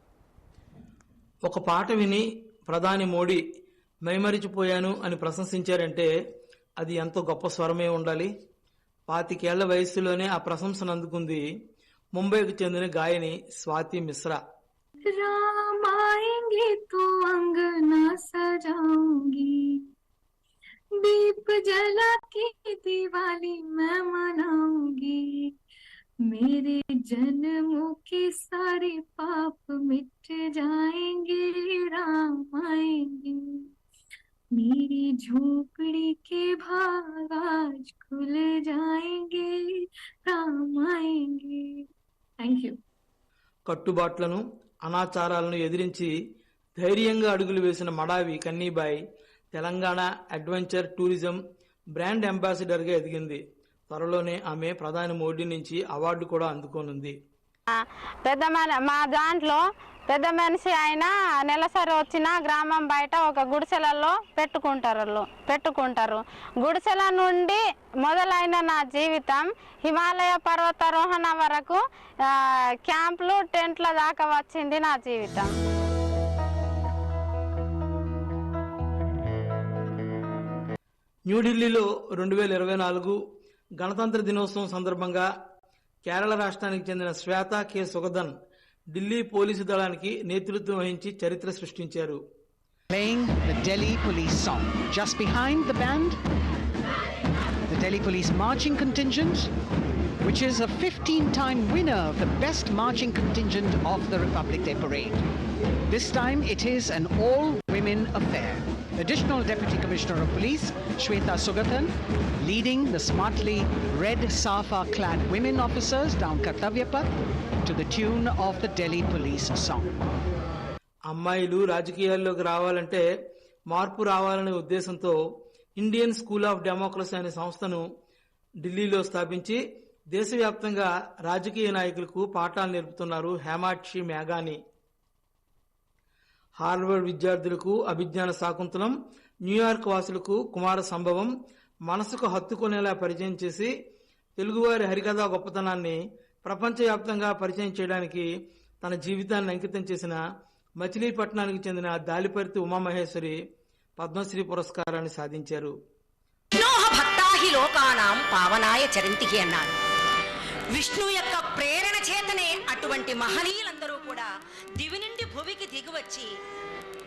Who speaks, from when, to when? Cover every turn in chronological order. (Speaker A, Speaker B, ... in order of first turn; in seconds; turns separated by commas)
Speaker A: 1.4-3.4, Speaker A: 4.0-6.1, Speaker A: 6.8-8.3, Speaker A: 9.1-11.4, Speaker A: 12.2-14.4, Speaker B: 15.0-19.8, Speaker B: 21.0-25.5, Speaker B: 26.3-33.7, Speaker B: 34.5-41.8, Speaker B: 42.4-42.8, Speaker A: 43.7-46.1, Speaker A: 46.8-49.0, Speaker A: 49.5-51.4, Speaker A: 52.0-57.1, Speaker C: 57.7-75.5, Speaker A: 81.3-83.2, Speaker A: 83.8-85.2, Speaker A: 86.0-88.3, Speaker A: 88.9-92.2, Speaker D: 92.9-96.2, Speaker D: 97.7-99.5, Speaker D: 100.2-105.2, Speaker D: 105.9-111.9, Speaker D: 112.4-117.1, Speaker D: 117.6-119.9, Speaker A: 121.1-123.0, Speaker A: 123.7-125.2, Speaker A: 125.8-127.8, Speaker A: 128.6-129.6, Speaker A: 130.1-134.6, Speaker A: 136.6-138.9, Speaker A: 139.4-141.3, Speaker A: 141.9-143.7, Speaker A: 144.4-148.3, Speaker A: 148.8-150.2, Speaker A: 150.8-153.3, Speaker A: 154.0-155.7, Speaker E: 156.6-159.8, Speaker E: 160.7-166.3